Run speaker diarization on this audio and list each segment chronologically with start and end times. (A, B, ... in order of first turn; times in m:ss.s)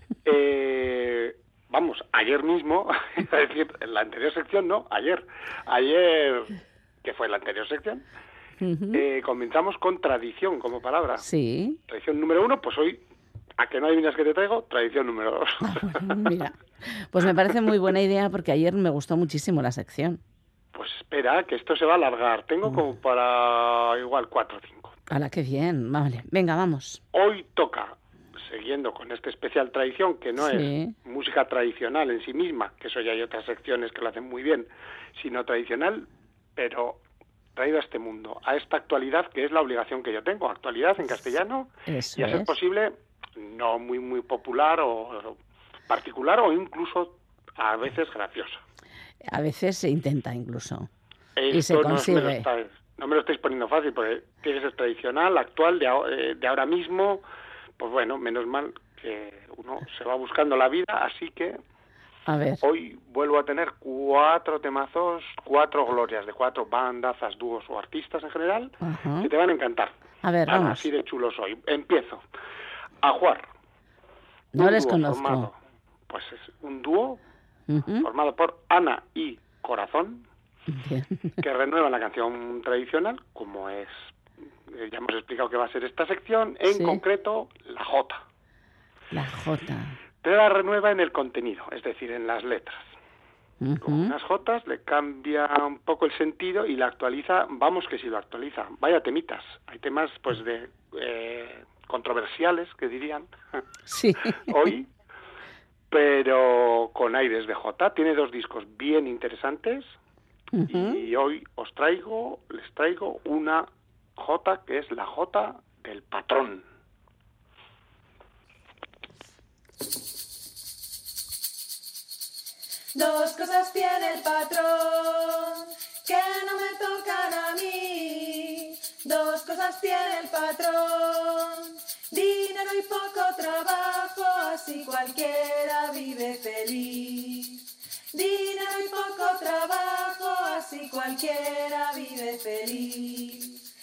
0:00.2-0:08.0 A
0:08.6-0:09.0 B
0:08.9-0:11.2 A
0:11.2-0:11.8 B
0:11.9-0:13.0 A
0:13.6-0:16.3 A
0:15.6-0:20.2 B
0:20.7-0:24.9 A
0:25.1-0:27.0 B
0:27.1-0:28.0 A
0:28.5-0:37.0 A
0:30.4-0:30.9 B
0:37.6-0:45.4 A
0:41.9-0:42.5 B
0:45.9-0:48.6 A
0:49.3-0:50.9 B
0:51.4-0:57.2 A
0:51.5-0:52.4 B
0:57.8-1:01.6 A
1:02.3-1:02.6 B
1:02.6-1:09.9 A
1:08.8-1:09.3 B
1:10.2-1:10.8 B
1:10.4-1:12.2 A
1:13.0-1:13.4 A
1:14.5-1:15.5 B
1:14.5-1:15.6 A
1:16.1-1:17.2 A
1:17.7-1:18.1 B
1:18.0-1:20.3 A
1:20.7-1:21.3 B
1:21.4-1:24.1 A
1:24.7-1:28.2 A
1:26.7-1:27.0 B
1:29.1-1:30.0 B
1:30.2-1:32.9 A
1:33.6-1:34.1 B
1:33.8-1:43.6 A
1:43.9-1:44.3 B
1:44.4-1:44.9 A
1:45.9-1:49.9 A
1:50.5-1:51.0 B
1:50.7-1:56.6 A
2:02.9-2:23.6 C